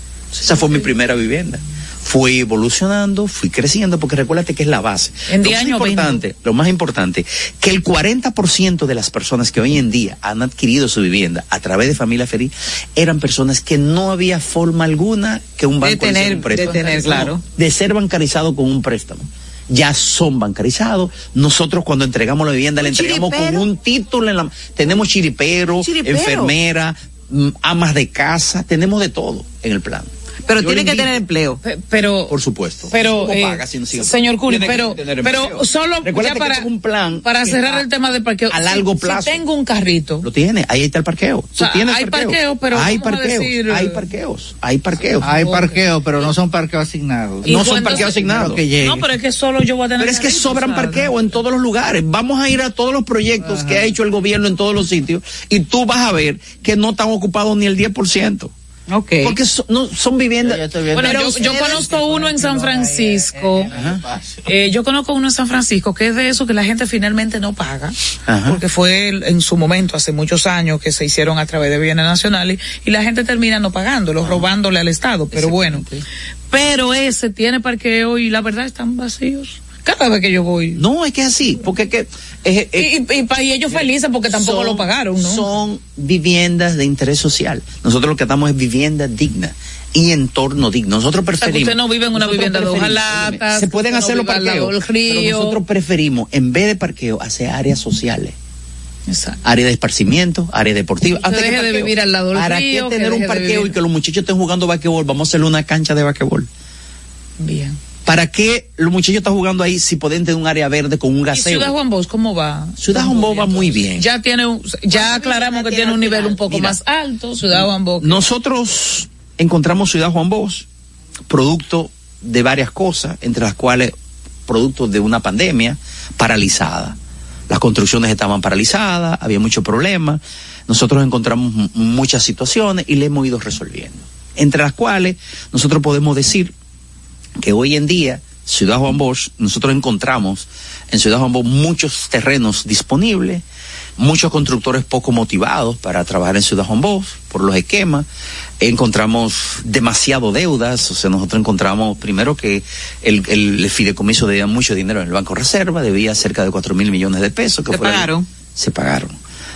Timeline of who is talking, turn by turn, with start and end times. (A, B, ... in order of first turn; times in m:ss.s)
0:00.4-0:31.2 A
0:05.3-0:06.2 B
0:15.8-0:17.4 C
0:16.6-0:17.2 B
0:22.8-0:23.6 C
0:25.8-0:26.5 C
0:30.5-0:31.6 C
0:31.6-0:32.3 B
0:32.3-0:37.8 A
0:32.9-0:36.6 B
0:37.2-0:40.3 B
0:38.5-0:39.4 A
0:40.2-0:45.3 A
0:41.6-0:44.0 B
0:45.2-0:45.8 B
0:45.2-0:49.0 D
0:47.4-0:48.2 B
0:47.4-0:48.6 A
0:48.8-0:51.2 B
0:50.0-0:58.5 A
0:53.4-0:53.9 D
0:58.9-0:59.4 C
0:59.2-1:00.7 A
1:00.4-1:04.4 D
1:00.9-1:03.7 B
1:01.0-1:01.8 C
1:03.7-1:04.0 A
1:04.4-1:15.8 B
1:08.3-1:08.6 A
1:15.3-1:16.0 A
1:16.5-1:20.8 B
1:20.8-1:22.9 A
1:22.8-1:25.4 B
1:23.7-1:38.3 A
1:31.4-1:35.6 B
1:39.1-1:39.4 B
1:39.4-1:46.5 A
1:41.1-1:43.8 B
1:47.4-1:47.8 B
1:48.0-1:51.7 A
1:51.3-1:58.2 B
1:52.8-1:54.0 A
1:54.9-1:56.5 C
1:58.0-2:00.6 A
2:01.3-2:03.9 A
2:04.5-2:07.0 A
2:07.5-2:16.5 A
2:17.4-2:23.4 A
2:24.0-2:28.0 A
2:28.6-2:39.2 A
2:37.7-2:38.2 C